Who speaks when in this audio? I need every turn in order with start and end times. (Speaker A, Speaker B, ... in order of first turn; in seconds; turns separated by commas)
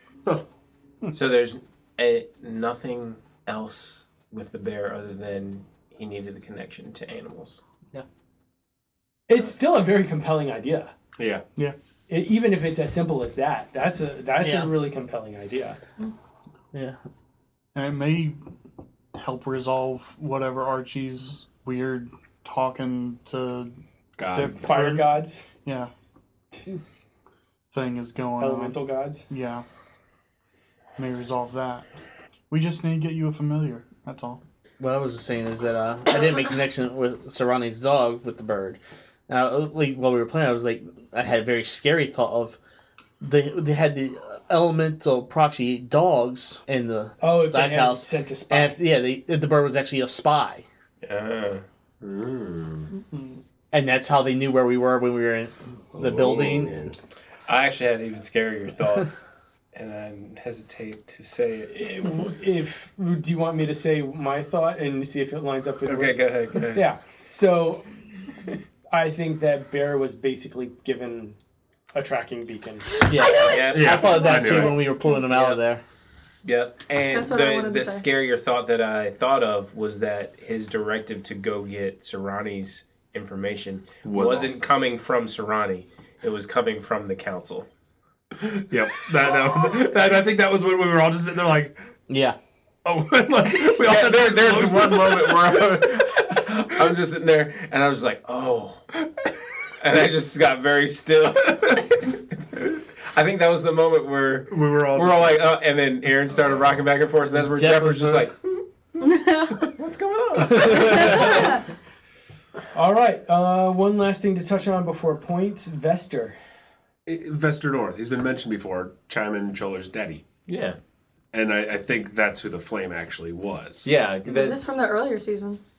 Speaker A: 1.1-7.6, Speaker B: 9.3-10.9, Speaker C: 11.2-11.4, Speaker B: 12.1-15.8, Speaker D: 14.4-14.8, Speaker D: 16.7-17.0, Speaker E: 17.7-18.4, Speaker E: 19.1-23.7, Speaker C: 24.2-24.6, Speaker E: 24.3-25.9, Speaker B: 24.6-25.4, Speaker E: 27.7-28.8, Speaker B: 28.4-29.3, Speaker E: 29.3-29.6, Speaker E: 31.0-31.9, Speaker E: 32.5-34.4, Speaker D: 34.8-42.6, Speaker D: 43.2-50.6, Speaker B: 47.2-48.8, Speaker A: 51.0-51.6, Speaker C: 52.0-52.9, Speaker D: 53.7-56.8, Speaker C: 56.0-57.0, Speaker A: 57.5-59.1, Speaker A: 59.7-62.1, Speaker B: 61.7-68.0, Speaker A: 65.9-66.9, Speaker B: 68.5-71.4, Speaker B: 71.9-72.9, Speaker F: 73.0-75.2, Speaker D: 73.1-75.8, Speaker A: 73.4-74.3, Speaker C: 73.5-74.9, Speaker A: 75.1-75.6, Speaker A: 76.5-87.7, Speaker F: 77.1-78.0, Speaker C: 84.0-84.6, Speaker C: 88.3-91.7, Speaker D: 92.1-92.4, Speaker C: 92.8-96.4, Speaker A: 93.6-98.9, Speaker A: 99.8-111.6, Speaker C: 104.5-105.4, Speaker C: 106.2-106.8, Speaker D: 107.5-108.3, Speaker F: 109.0-109.7, Speaker F: 110.7-111.6, Speaker B: 112.7-116.4, Speaker C: 117.1-120.2, Speaker A: 120.5-120.8, Speaker C: 121.3-123.9, Speaker A: 123.8-124.6, Speaker F: 124.2-125.6